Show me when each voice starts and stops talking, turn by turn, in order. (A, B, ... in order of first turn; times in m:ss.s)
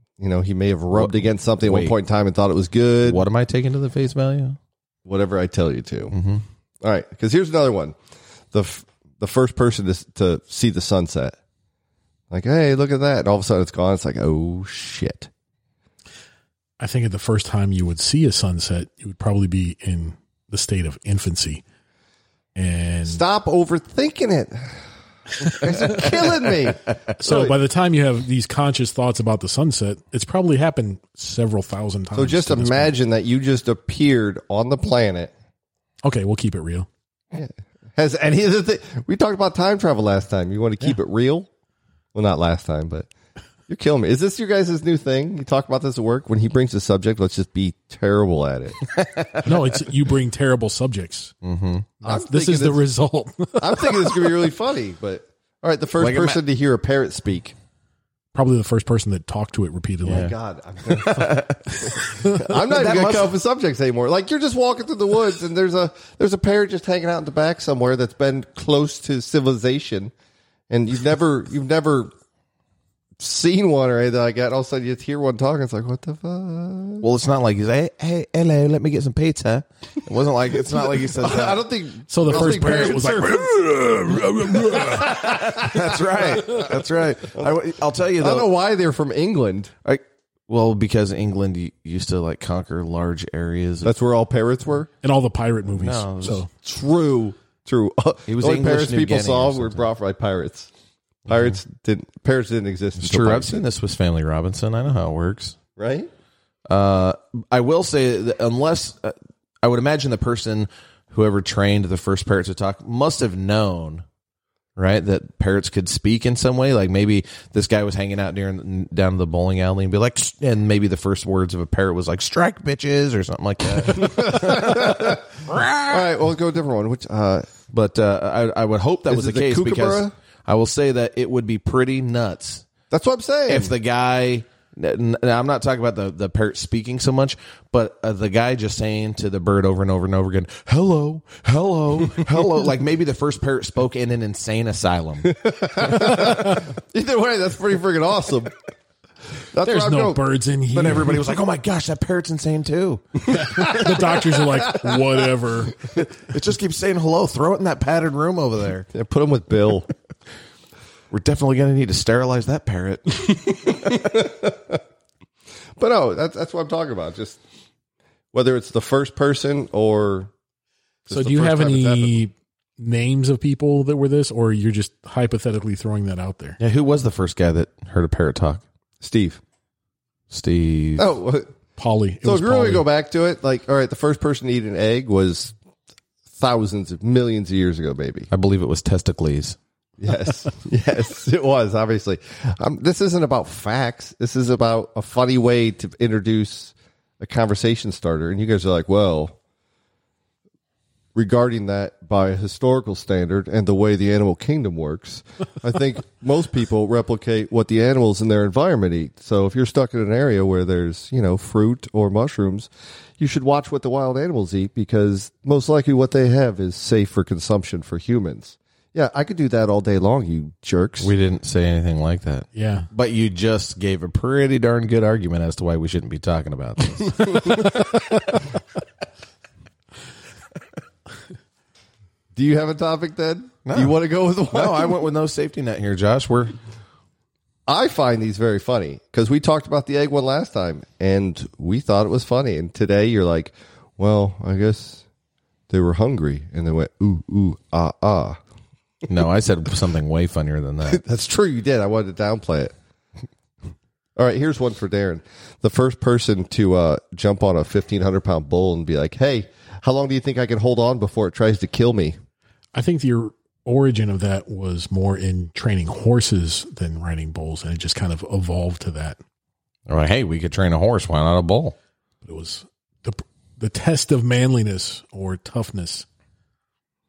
0:00.2-0:03.2 A
0:00.9-0:02.0 B
0:03.0-0:04.6 B
0:05.0-0:06.1 A
0:06.1-0:06.4 B
0:06.8-0:08.0 A
0:08.5-0:11.4 A
0:12.3-0:15.3 A
0:16.8-0:21.6 C
0:22.5-0:23.2 C
0:23.0-0:24.8 A
0:25.4-0:27.6 A
0:25.5-0:26.1 C
0:27.2-0:32.9 C
0:32.1-0:35.3 A
0:36.0-0:36.9 C
0:37.3-0:41.5 A
0:42.1-0:43.1 A
0:43.7-0:48.8 A
0:48.9-0:49.4 B
0:49.4-0:51.3 C
0:51.4-0:51.9 B
0:52.0-0:54.4 C
0:52.0-0:52.8 A
0:53.6-0:57.5 A
0:56.0-0:56.4 B
0:58.3-1:00.3 C
1:00.0-1:03.3 B
1:00.1-1:10.1 A
1:10.7-1:12.1 A
1:13.2-1:17.0 A
1:17.0-1:21.6 B
1:20.8-1:26.7 A
1:22.1-1:25.3 C
1:22.3-1:22.6 B
1:24.7-1:28.5 B
1:28.2-1:29.7 A
1:29.8-1:33.9 B
1:33.8-1:34.9 A
1:35.0-1:36.5 C
1:35.7-1:36.4 B
1:36.6-1:40.7 A
1:38.3-1:39.9 B
1:41.3-1:43.6 A
1:43.0-1:45.6 B
1:45.8-1:46.1 A
1:46.7-1:54.0 B
1:54.8-2:06.0 B
2:03.9-2:05.2 A
2:05.9-2:07.5 A
2:07.7-2:12.6 B
2:09.1-2:10.1 A
2:12.9-2:13.7 A
2:13.5-2:26.3 B
2:25.2-2:28.5 A
2:29.5-2:30.3 A
2:29.6-2:31.2 C
2:30.7-2:33.8 B
2:33.2-2:35.2 A
2:33.4-2:35.8 C
2:35.9-2:38.9 B
2:38.9-2:39.9 A
2:41.1-2:43.3 B
2:43.1-2:44.8 A
2:45.8-2:47.4 A
2:48.3-2:50.3 A
2:51.1-2:52.2 A
2:51.1-2:56.6 C
2:56.6-2:58.6 B
2:59.0-2:59.4 A
3:00.3-3:01.1 B
3:01.0-3:01.5 A
3:01.8-3:02.8 C
3:02.2-3:05.5 A
3:06.3-3:08.3 A
3:08.3-3:09.6 B
3:10.0-3:19.4 A
3:21.1-3:41.1 A
3:41.0-3:48.0 B
3:42.5-3:42.9 C
3:47.3-3:48.1 A
3:52.3-3:55.0 A
3:53.6-3:54.0 B
3:54.5-3:56.6 B
3:57.7-4:05.0 A
4:05.7-4:08.4 A
4:09.0-4:11.0 B
4:10.9-4:12.7 A
4:14.2-4:22.2 A
4:22.7-4:29.2 C
4:29.9-4:31.7 B
4:32.2-4:36.0 C